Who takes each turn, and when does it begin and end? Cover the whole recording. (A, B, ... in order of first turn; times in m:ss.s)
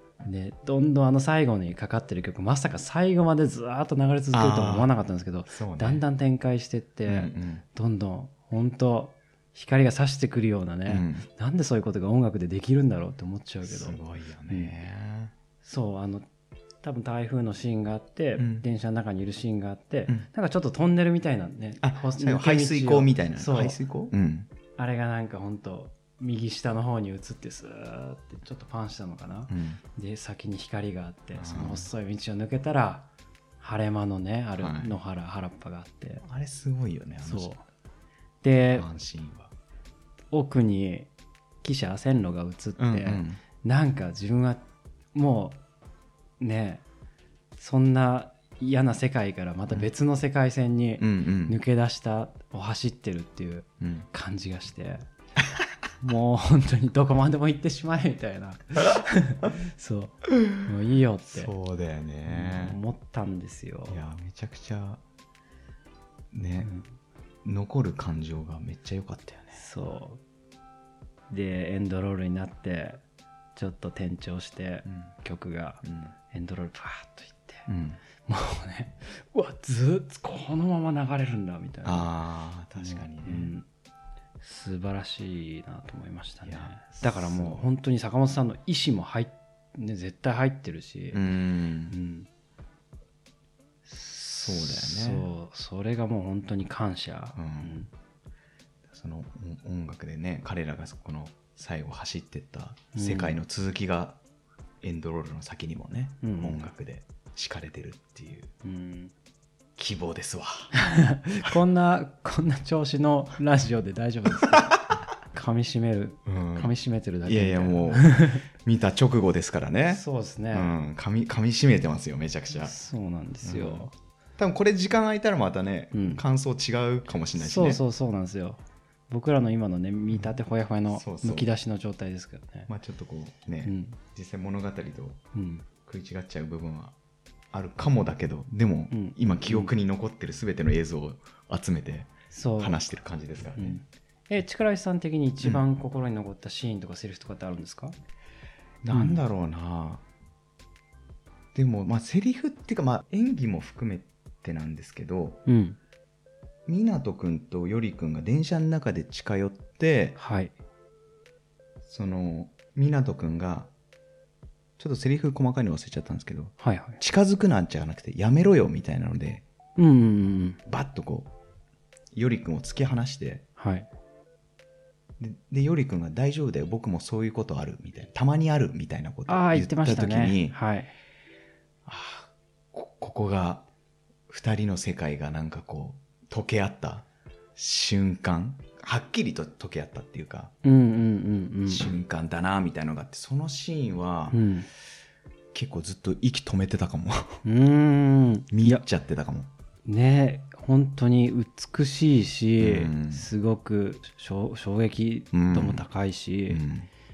0:00.2-0:14.7 A
0:04.3-0:04.9 B
0:05.5-0:06.0 B
0:07.1-0:07.6 B
0:10.8-0:11.2 B
0:13.6-0:15.3 B
0:15.6-0:16.3 A
0:16.8-0:23.8 A
0:18.4-0:18.6 B
0:21.8-0:24.5 B
0:24.8-0:33.1 A
0:29.5-0:29.8 B
0:31.3-0:31.9 B
0:33.6-0:36.2 A
0:34.6-0:34.9 B
0:36.2-0:37.5 B
0:37.2-0:37.6 A
0:38.4-0:38.9 A
0:38.7-0:39.5 B
0:40.3-0:41.1 A
0:41.6-0:45.6 A
0:42.8-0:43.4 B
0:46.4-0:46.8 A
0:47.6-0:55.0 A
0:51.0-0:51.6 B
0:53.8-0:54.1 B
0:56.0-1:01.5 A
1:01.3-1:02.8 B
1:02.3-1:04.0 A
1:03.9-1:05.0 B
1:06.3-1:06.7 B
1:06.6-1:06.9 A
1:07.4-1:09.6 B
1:09.5-1:10.2 A
1:11.3-1:13.0 A
1:13.6-1:17.6 A
1:14.8-1:15.1 B
1:15.8-1:16.1 B
1:17.7-1:18.0 B
1:18.2-1:22.1 A
1:21.8-1:23.5 B
1:22.8-1:23.6 A
1:24.4-1:31.2 A
1:26.4-1:27.6 B
1:31.1-1:32.0 B
1:31.9-1:32.3 A
1:33.9-1:37.9 A
1:34.4-1:35.3 B
1:37.4-1:37.8 B
1:38.8-1:44.2 B
1:42.9-1:43.4 A
1:44.8-1:48.5 B
1:46.2-1:46.7 A
1:48.6-1:49.1 A
1:49.8-1:50.7 B
1:50.7-1:58.4 A
1:54.4-1:54.9 B
1:56.2-1:56.7 B
1:57.2-2:02.7 B
1:59.9-2:00.7 A
2:02.6-2:03.9 A
2:03.4-2:07.8 B
2:05.9-2:06.2 A
2:07.4-2:12.7 A
2:10.9-2:11.5 B
2:12.7-2:15.2 B
2:13.6-2:14.0 A
2:15.3-2:15.6 A
2:15.8-2:17.0 B
2:17.5-2:23.8 B
2:18.9-2:19.7 A
2:22.3-2:22.9 A
2:23.6-2:27.9 A
2:28.8-2:30.0 B
2:28.9-2:29.2 A
2:31.5-2:35.4 B
2:35.5-2:35.8 A
2:36.7-2:40.2 B
2:40.2-2:40.5 A
2:41.8-2:43.7 B
2:44.8-2:49.4 B
2:46.6-2:47.0 A
2:49.8-2:50.6 A
2:50.6-2:51.3 B
2:52.1-2:53.4 B
2:53.6-2:53.9 A
2:55.2-3:00.6 B
2:59.3-3:00.9 A
3:01.8-3:03.6 B
3:04.3-3:10.5 B
3:10.6-3:11.9 A
3:11.7-3:14.4 B
3:14.3-3:14.7 A
3:15.5-3:17.4 B
3:17.4-3:18.8 A
3:18.5-3:19.5 B
3:19.8-3:26.6 A
3:22.6-3:23.3 B
3:25.3-3:25.8 B
3:26.5-3:26.9 B